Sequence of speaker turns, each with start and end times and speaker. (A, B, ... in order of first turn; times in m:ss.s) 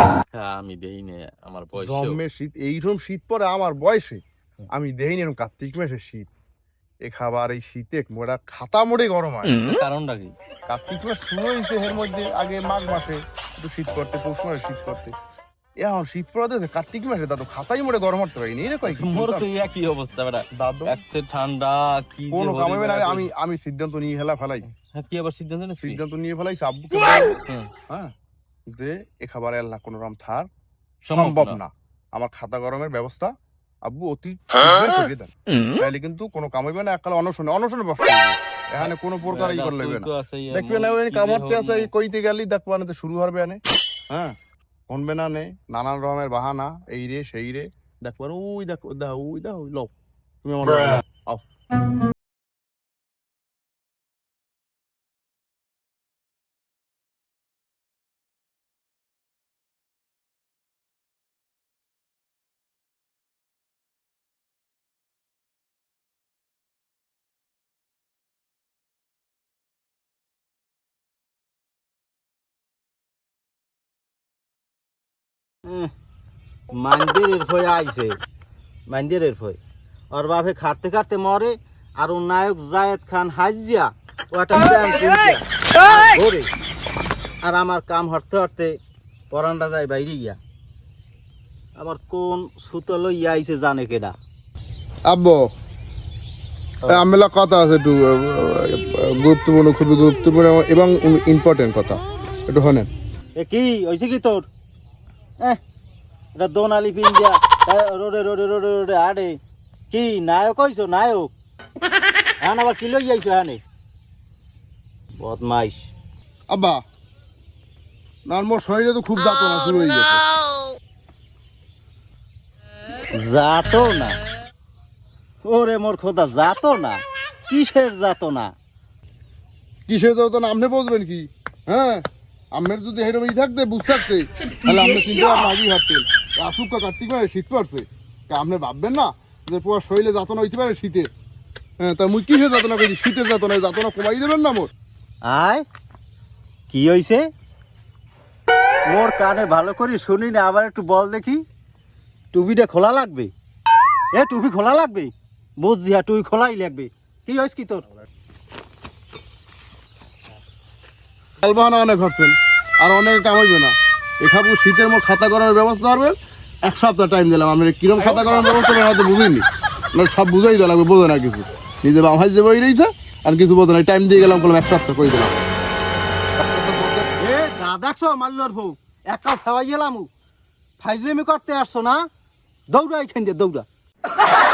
0:00.3-0:02.2 A
0:01.8-0:04.2 B
0:04.7-0:06.3 B
0:07.0-0:09.6 B
0:09.6-0:10.3 A
0:10.7-0:15.1 B
0:15.8-0:19.5 B
0:18.8-0:23.3 A
0:20.6-0:21.0 B
0:22.3-0:24.6 B
0:24.7-0:26.0 A
0:25.8-0:27.4 B
0:28.7-0:30.5 B
0:31.1-0:31.6 A
0:31.1-0:33.3 B
0:33.8-0:43.6 B
0:38.8-0:41.9 A
0:44.1-0:44.4 B
0:44.9-0:49.9 B
0:50.4-0:51.4 B
1:15.7-1:15.9 C
1:16.7-1:18.2 C
1:18.9-1:19.6 C
1:20.2-1:26.5 C
1:27.4-1:28.7 C
1:29.3-1:30.4 C
1:31.8-1:34.2 C
1:35.1-1:35.4 B
1:36.9-1:42.9 B
1:43.4-1:44.5 C
1:46.4-1:49.3 C
1:49.9-1:51.3 C
1:52.4-1:53.6 C
1:55.2-1:55.9 C
1:56.5-1:56.8 B
1:58.3-2:00.2 B
2:03.4-2:04.2 C
2:05.5-2:08.5 C
2:09.9-2:12.0 B
2:12.6-2:21.1 B
2:21.8-2:24.7 B
2:25.3-2:25.6 C
2:26.7-2:27.2 C
2:28.9-2:31.4 C
2:32.5-2:33.3 C
2:34.4-2:37.8 C
2:41.4-2:55.3 B
2:56.5-2:57.0 B
2:57.4-2:58.7 C
2:59.3-3:00.1 C
3:00.9-3:01.8 C
3:02.7-3:03.7 C